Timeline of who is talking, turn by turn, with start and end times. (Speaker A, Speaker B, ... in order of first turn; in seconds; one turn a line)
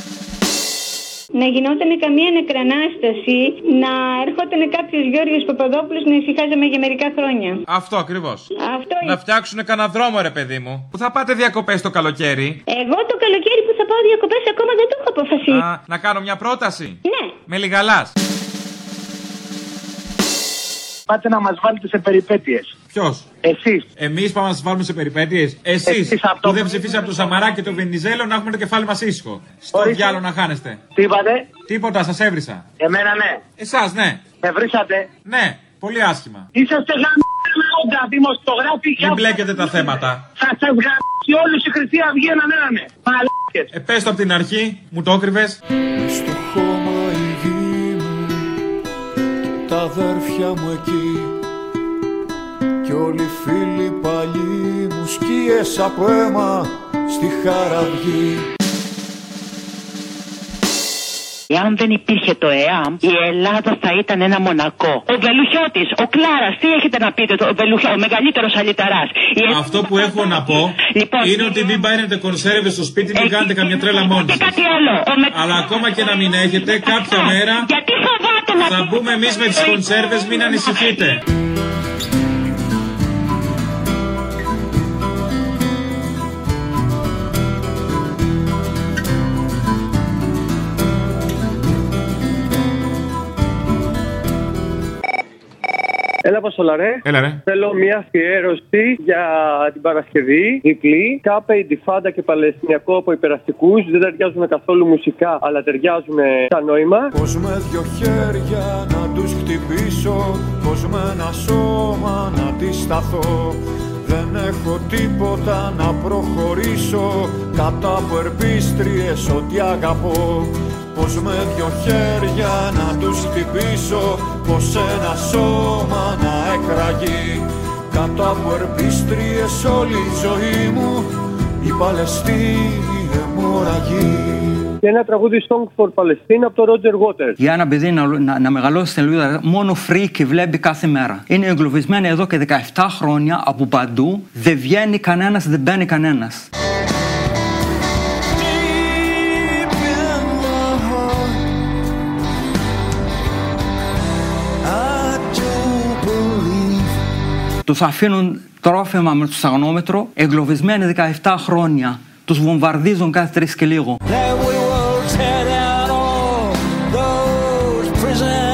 Speaker A: 1.3-7.6
Speaker B: 7.7-8.5
Speaker A: 8.6-9.2
Speaker B: 9.0-12.6
Speaker A: 12.7-15.6
Speaker B: 15.5-18.1
Speaker A: 17.1-17.4
Speaker C: 21.1-22.7
Speaker B: 22.9-23.3
Speaker C: 23.4-23.9
Speaker B: 24.0-30.8
Speaker C: 25.9-26.8
Speaker C: 29.7-30.2
Speaker C: 31.0-31.5
Speaker B: 31.7-32.6
Speaker C: 32.8-33.4
Speaker B: 33.6-34.2
Speaker C: 34.4-35.1
Speaker B: 35.3-36.5
Speaker C: 36.5-39.4
Speaker B: 39.0-40.2
Speaker C: 40.4-43.7
Speaker B: 43.7-45.6
Speaker D: 46.0-48.5
Speaker D: 49.5-51.4
Speaker D: 52.8-58.5
Speaker E: 61.5-70.4
Speaker B: 69.5-74.6
Speaker E: 71.0-71.7
Speaker E: 73.1-75.7
Speaker B: 75.3-77.7
Speaker E: 76.6-79.0
Speaker B: 78.5-81.2
Speaker F: 96.2-107.1
Speaker B: 97.0-97.4
Speaker D: 107.1-131.1
Speaker D: 131.6-134.7
Speaker F: 134.8-137.4
Speaker G: 137.4-146.4
Speaker D: 148.5-151.3
Speaker D: 154.7-156.4
Speaker G: 157.7-163.9